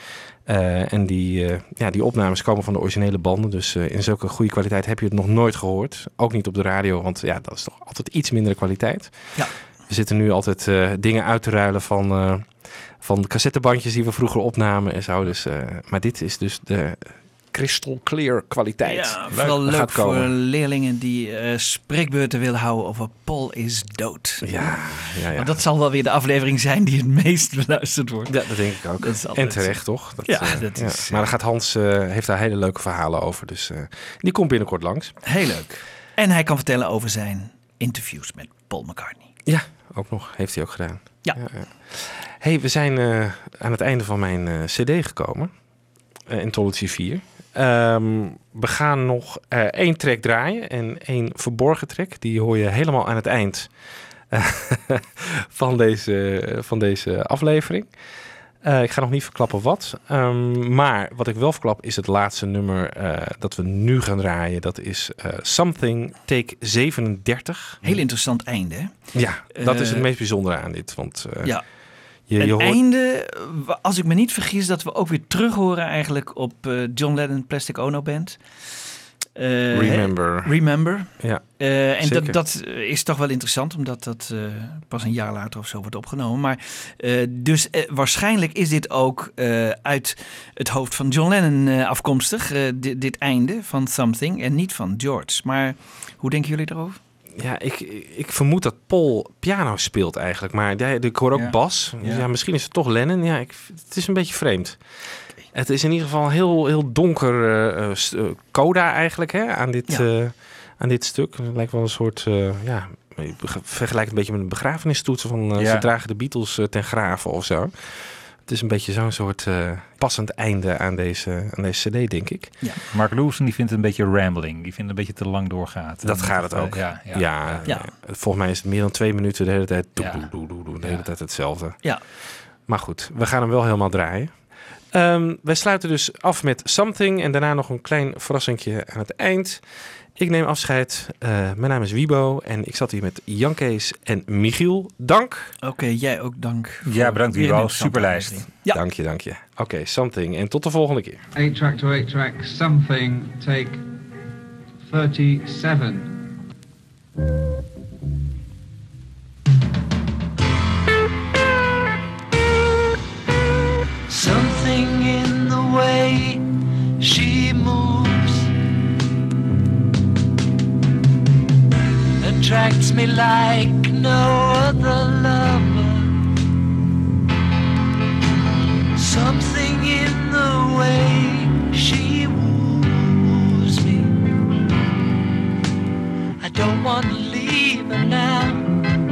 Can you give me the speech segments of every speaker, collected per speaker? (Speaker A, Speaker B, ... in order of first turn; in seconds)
Speaker A: 0.4-20.3, 24.4-25.6, 28.3-35.2, 39.5-45.5, 46.3-53.7, 54.3-57.9, 58.6-67.9, 69.1-71.7, 72.3-72.8, 79.7-82.4, 97.3-104.8, 105.5-122.5, 126.0-132.0, 132.7-145.5, 148.7-151.2
Speaker B: 18.8-24.7, 25.3-31.3, 35.2-39.3, 67.8-70.1, 72.2-78.4, 79.3-97.0, 145.6-148.8
Speaker C: 101.3-102.2, 115.6-115.9, 122.9-127.7, 130.0-131.0, 146.8-148.5
Speaker D: 151.3-153.8, 154.8-156.2
Speaker E: 164.1-166.4, 167.0-168.5, 172.2-176.2, 178.9-184.2, 186.4-188.7